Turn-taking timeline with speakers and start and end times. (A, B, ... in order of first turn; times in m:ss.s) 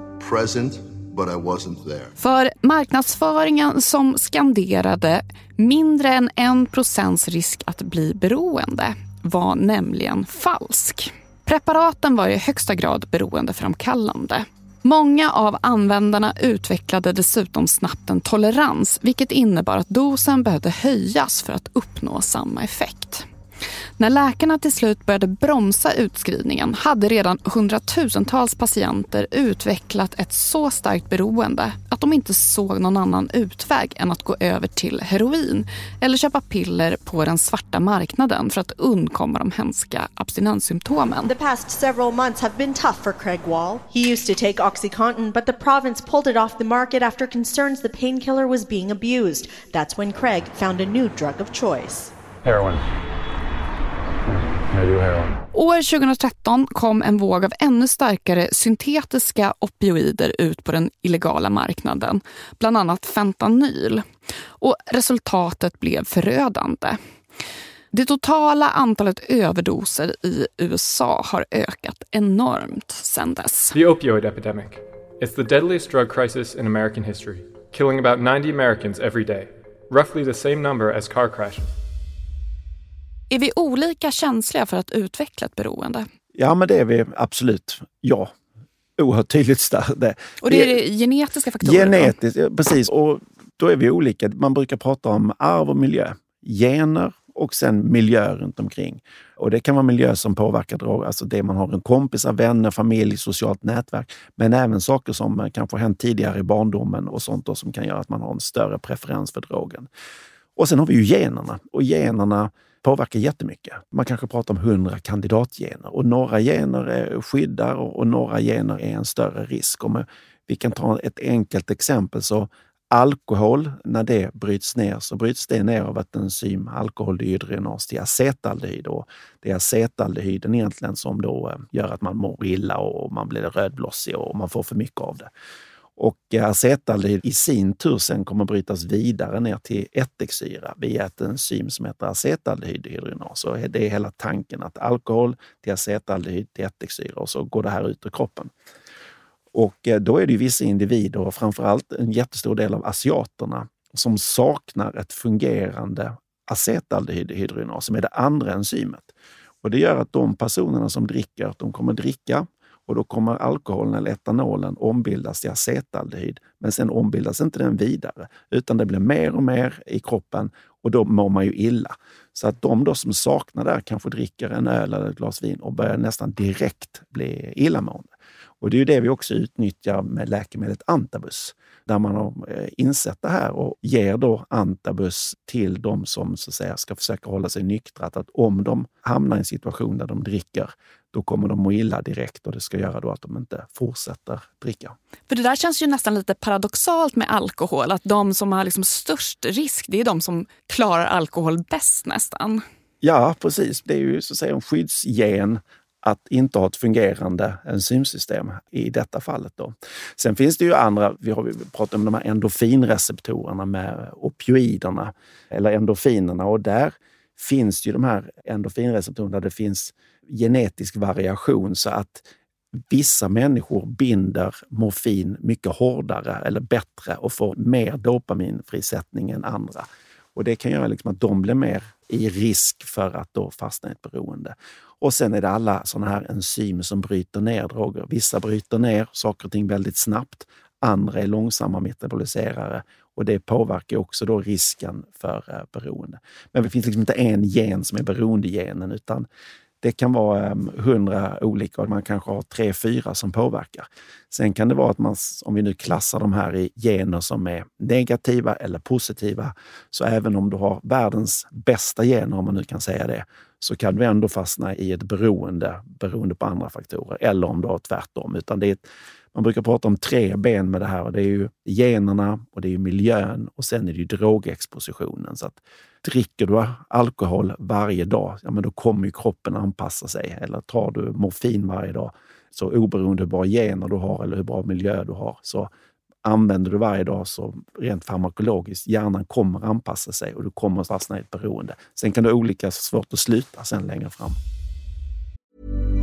0:00.2-0:02.1 A
0:02.2-0:23.3 B
0:24.0-0:41.3 B
0:41.3-0:52.1 C
0:52.4-0:52.8 D
0:54.9-0:55.2 D
0:55.5-1:04.1 B
1:04.6-1:07.0 B
1:07.9-1:13.8 B
1:13.7-1:21.7 D
1:23.3-1:26.0 B
1:26.3-1:28.3 E
1:29.0-1:30.7 E
1:30.4-1:32.1 B
1:31.6-1:49.9 E
1:50.6-2:15.3 E
2:16.0-2:28.5 E
2:29.5-2:39.1 E
2:39.6-2:58.1 E
2:58.6-3:15.0 E
3:15.3-3:22.6 B
3:23.0-3:42.2 E
3:42.8-4:09.3 E
4:09.8-4:28.8 E
4:29.3-4:45.7 E
4:46.2-4:54.4 E